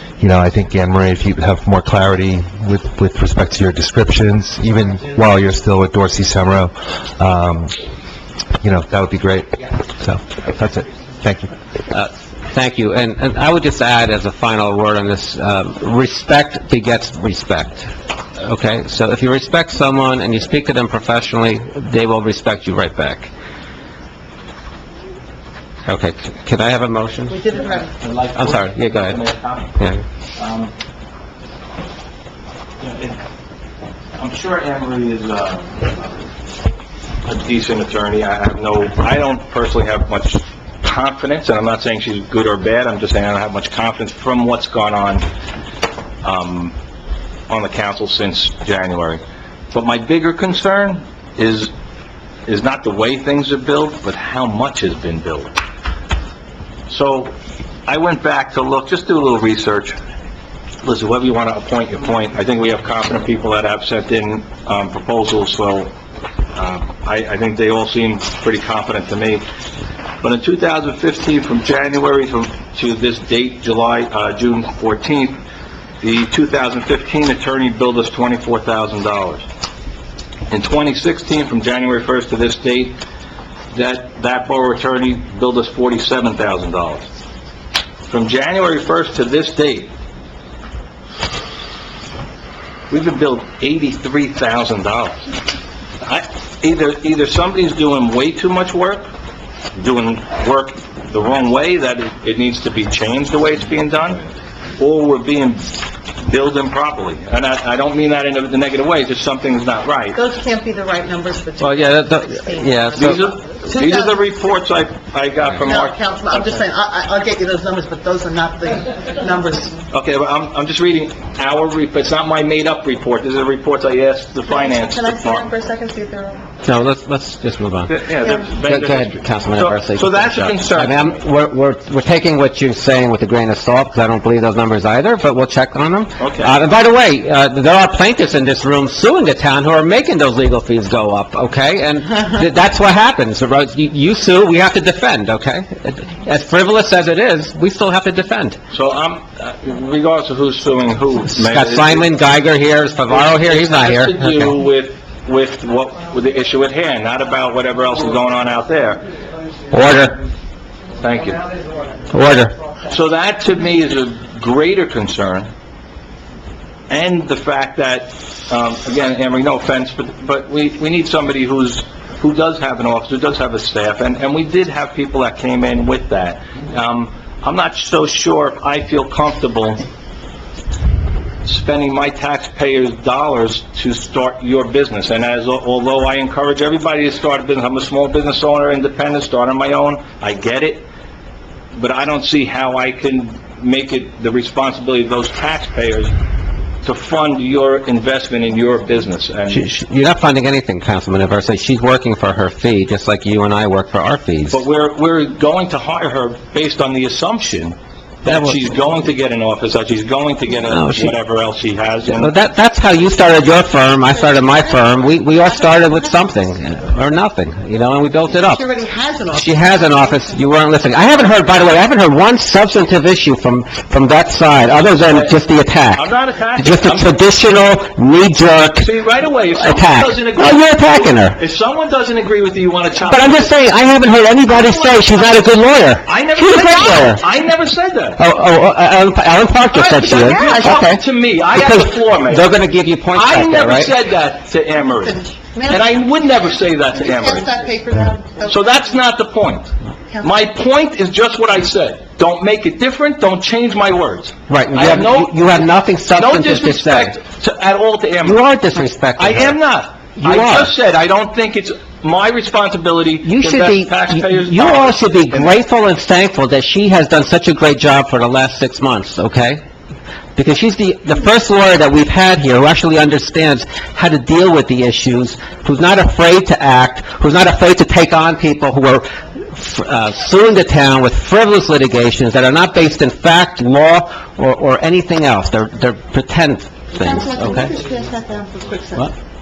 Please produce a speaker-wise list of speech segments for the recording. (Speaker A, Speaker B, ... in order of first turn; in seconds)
Speaker A: 0.2-7.7, 8.6-11.5
Speaker B: 11.9-23.3, 25.9-27.4, 28.4-29.2, 111.6-113.2, 126.7-127.9, 128.6-148.6, 151.3-154.6, 159.7-160.2, 162.1-162.5, 199.5-204.6, 208.3-208.6, 210.7-211.2, 212.1-218.6, 219.3-228.9, 229.5-231.4, 233.0-237.2, 238.2-243.9, 254.5-257.2, 258.2-259.6, 260.2-260.7, 263.2-269.6, 270.4-287.7
Speaker C: 27.3-27.9, 110.1-114.3, 115.6-119.8, 124.5-126.4, 128.2-128.5, 214.1-216.5, 218.3-220.4, 234.7-235.2, 244.9-248.9, 250.1-250.4, 286.9-289.1
Speaker D: 27.6-29.8, 30.4-30.7, 32.8-33.2, 34.2-36.2, 37.2-45.3, 46.2-46.8, 47.5-51.7, 52.5-55.6, 56.9-57.3, 57.9-60.0, 60.8-65.9, 66.5-69.4, 70.2-75.4, 76.0-79.5, 80.5-83.0, 83.7-87.1, 88.1-89.9, 92.9-95.3, 96.0-99.1, 99.8-104.2, 104.8-110.2, 113.0-116.0, 119.9-125.5, 127.9-131.1, 136.2-136.6, 148.7-152.1, 153.1-159.1, 161.0-161.4, 162.9-165.5, 166.9-179.9, 181.4-190.9, 191.7-196.2, 196.8-199.7, 204.5-212.4, 224.7-225.4, 225.9-227.1, 228.8-233.5, 236.1-238.2, 239.7-242.6, 243.1-247.5, 248.5-258.4, 259.2-265.5